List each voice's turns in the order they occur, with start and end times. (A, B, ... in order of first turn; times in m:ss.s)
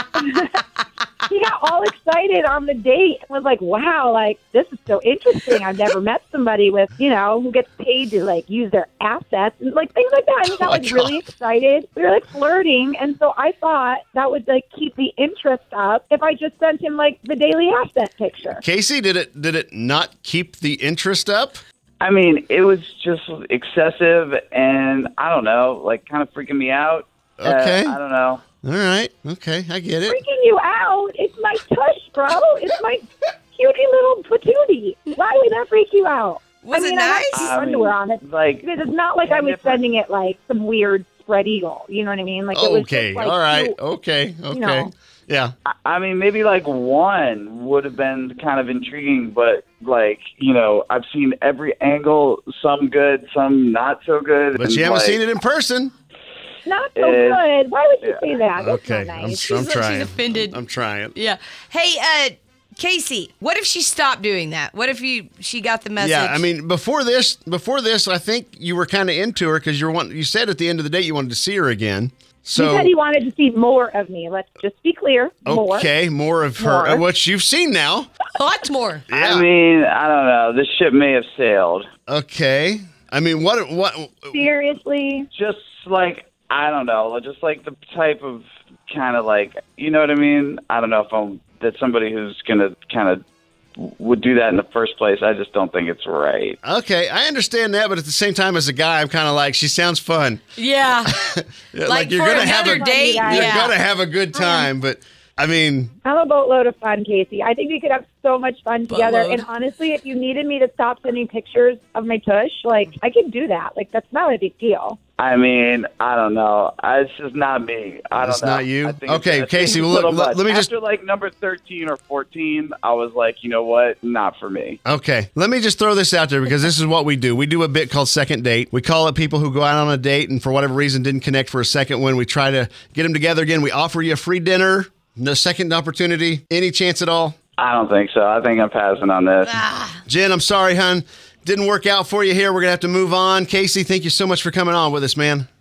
0:00.2-0:00.5 A
0:01.3-0:18.6 A
0:10.4-0:11.2 B
0:18.6-0:21.6 B
0:22.0-0:28.4 C
0:27.4-0:28.0 B
0:28.6-0:30.2 B
0:30.1-0:43.8 A
0:36.6-0:37.5 D
0:37.3-0:38.7 C
0:39.2-0:39.8 C
0:42.5-0:45.5 B
0:44.5-0:44.9 A
0:45.6-0:55.3 C
0:54.5-0:55.9 B
0:56.6-0:59.5 A
0:57.0-0:57.4 C
0:58.0-0:58.4 C
0:58.6-1:01.1 B
0:59.4-1:00.6 D
1:01.1-1:06.4 D
1:06.0-1:12.9 B
1:12.6-1:15.9 A
1:15.4-1:18.1 B
1:16.6-1:17.0 A
1:18.3-1:19.0 D
1:19.1-1:19.4 B
1:19.1-1:21.9 C
1:22.1-1:24.4 B
1:24.3-1:25.3 A
1:25.3-1:33.2 C
1:33.8-1:36.6 C
1:36.6-1:40.4 B
1:40.6-1:41.1 D
1:41.0-1:45.9 B
1:41.8-1:43.7 D
1:42.2-1:43.7 A
1:44.3-1:44.7 A
1:46.0-1:55.0 A
1:48.9-1:49.4 D
1:55.2-2:04.8 C
1:58.2-2:00.7 B
2:04.8-2:17.3 B
2:17.6-2:19.6 C
2:19.4-2:20.0 D
2:20.1-2:25.5 B